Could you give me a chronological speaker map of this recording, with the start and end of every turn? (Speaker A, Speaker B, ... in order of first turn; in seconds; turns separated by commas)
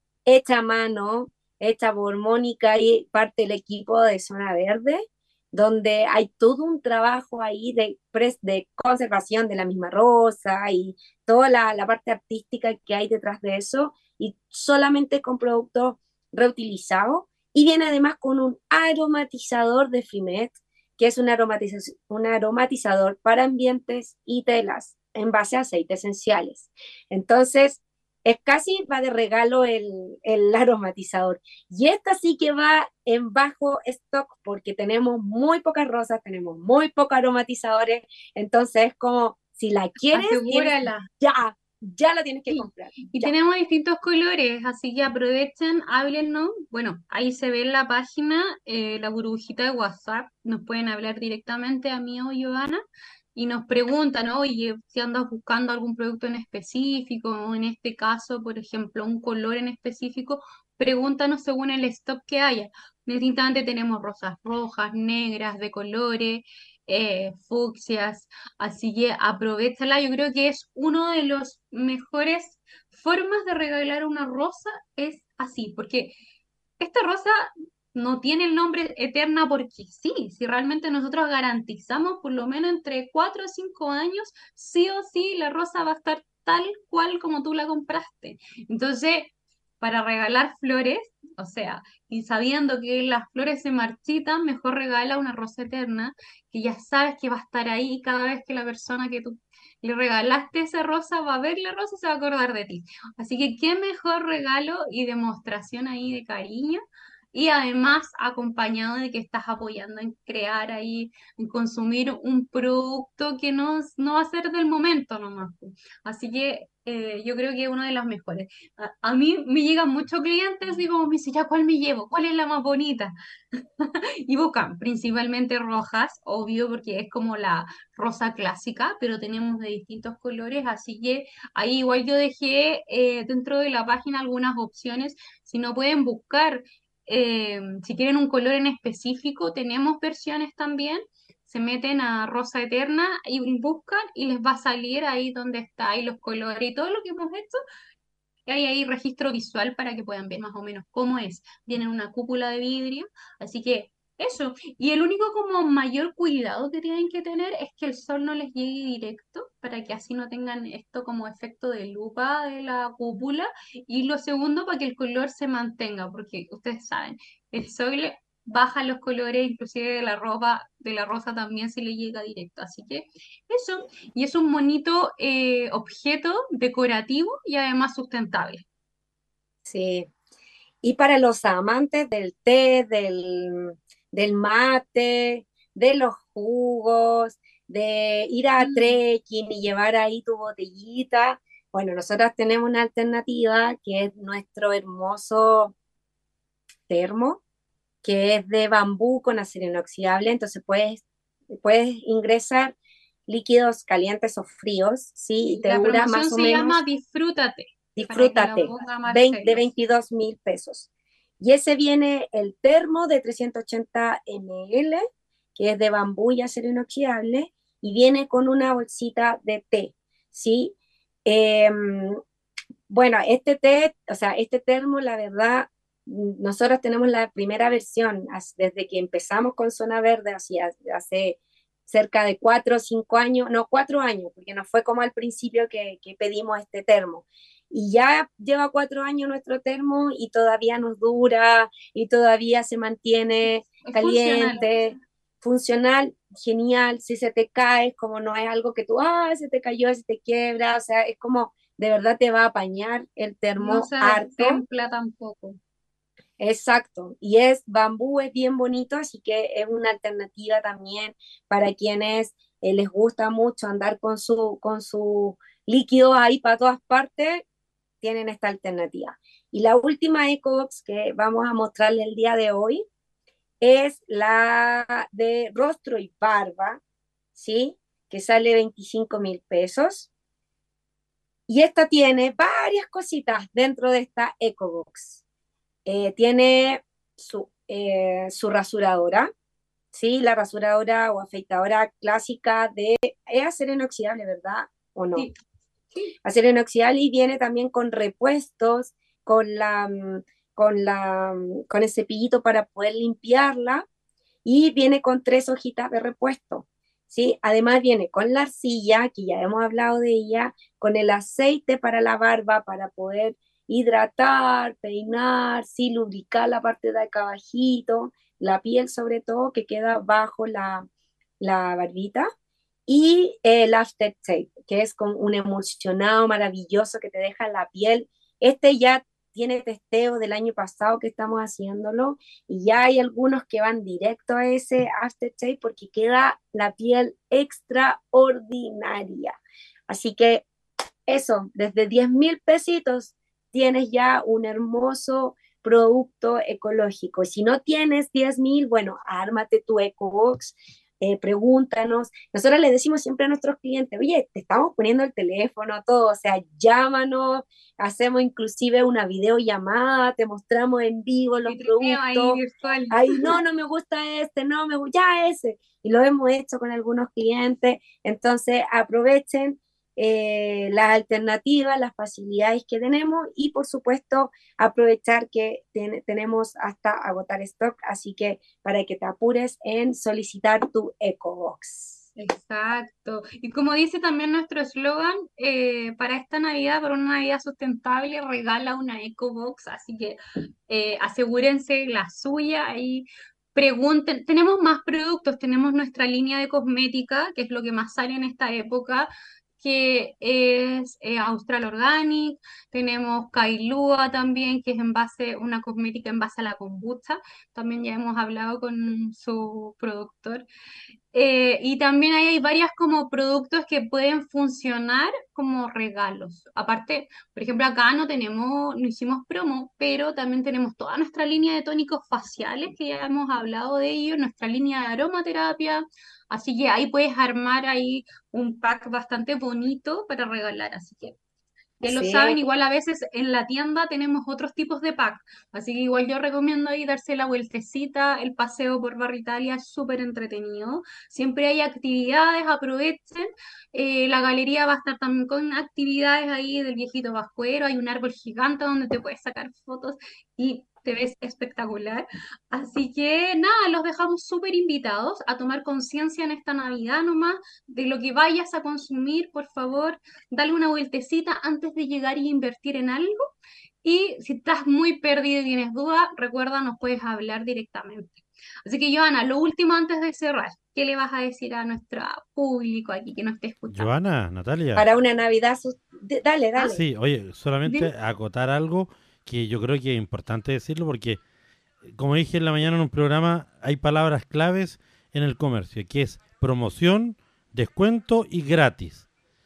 Speaker A: 0.3-43.3, Speaker B: 40.1-41.1, Speaker B: 42.5-52.8, Speaker B: 53.4-76.1, Speaker B: 76.8-106.8, Speaker B: 107.3-123.1, Speaker B: 123.8-147.6, Speaker B: 148.5-178.6, Speaker A: 179.7-180.1, Speaker A: 180.8-195.7, Speaker B: 188.6-189.0, Speaker A: 196.9-197.4, Speaker A: 198.0-202.8, Speaker A: 203.3-206.8, Speaker B: 205.5-209.7, Speaker A: 208.0-210.9, Speaker A: 211.4-215.0, Speaker A: 215.6-222.2, Speaker A: 222.9-254.6, Speaker B: 243.8-244.7, Speaker B: 253.6-255.6, Speaker A: 256.4-267.4, Speaker A: 268.0-272.8, Speaker A: 273.6-276.8, Speaker A: 277.3-280.1, Speaker A: 281.5-285.2, Speaker A: 285.9-289.3, Speaker A: 289.9-295.3, Speaker A: 296.2-303.9, Speaker A: 304.4-320.9, Speaker A: 321.4-322.3, Speaker A: 322.9-339.4, Speaker A: 339.9-340.4, Speaker A: 341.1-362.4, Speaker B: 361.5-363.4, Speaker A: 362.9-382.1, Speaker B: 382.2-390.2, Speaker B: 390.7-410.4, Speaker B: 411.1-431.1, Speaker B: 431.8-463.3, Speaker A: 431.8-432.4, Speaker B: 463.8-473.9, Speaker C: 473.7-474.9, Speaker A: 474.8-476.8, Speaker C: 476.6-481.2, Speaker B: 477.6-477.9, Speaker C: 481.9-489.1